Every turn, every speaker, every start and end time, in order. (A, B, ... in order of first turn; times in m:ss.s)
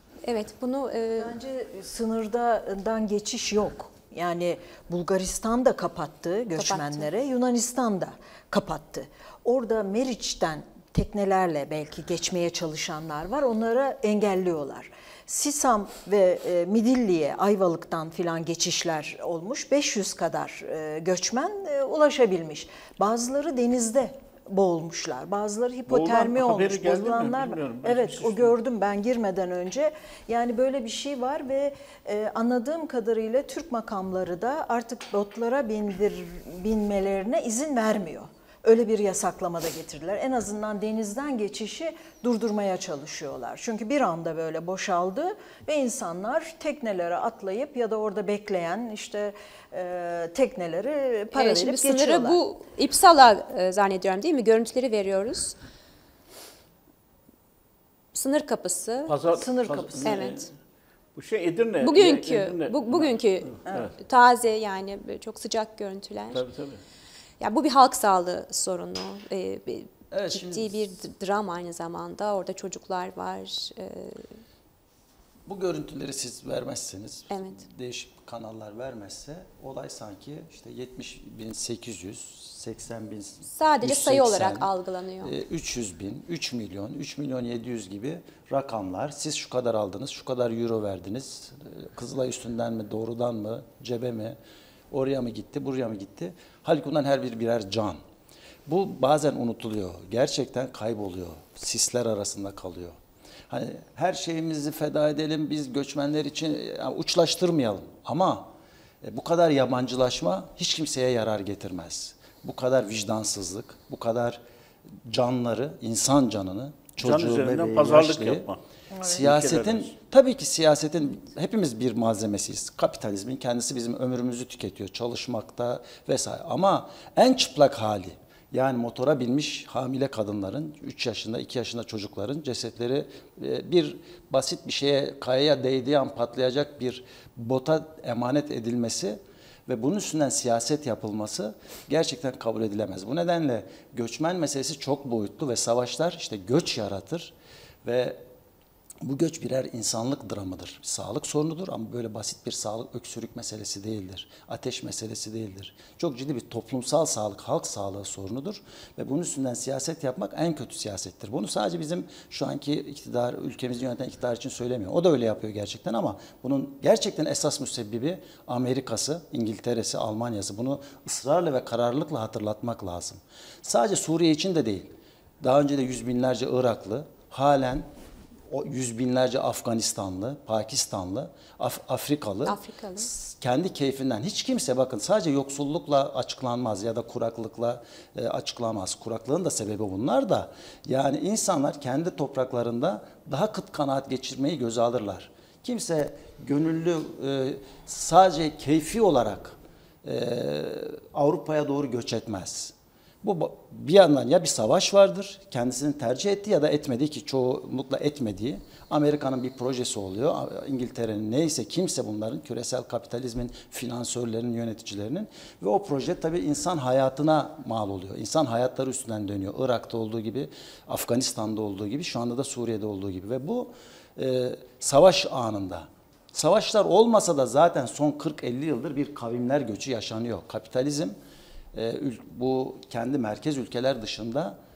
0:00.2-0:01.4 A
0:01.2-0:52.4 B
0:06.6-0:07.1 A
0:25.9-0:28.5 C
0:51.3-0:55.6 A
0:58.1-0:59.1 A
0:59.1-1:00.5 C
0:59.3-1:00.3 B
1:00.0-1:00.4 A
1:01.1-1:03.9 C
1:01.8-1:06.4 A
1:06.3-1:06.8 C
1:07.4-1:14.4 A
1:10.1-1:11.0 D
1:15.4-1:24.7 D
1:17.3-1:17.6 A
1:23.4-1:25.3 A
1:25.2-1:34.4 D
1:34.9-1:38.0 D
1:38.7-1:43.0 D
1:43.5-1:48.5 D
1:49.0-1:54.4 D
1:55.0-1:58.5 D
1:57.0-1:59.9 C
1:59.0-2:27.3 D
2:27.8-2:28.2 D
2:29.0-2:57.9 D
2:58.5-3:51.2 D
3:02.4-3:03.1 A
3:51.7-3:54.6 D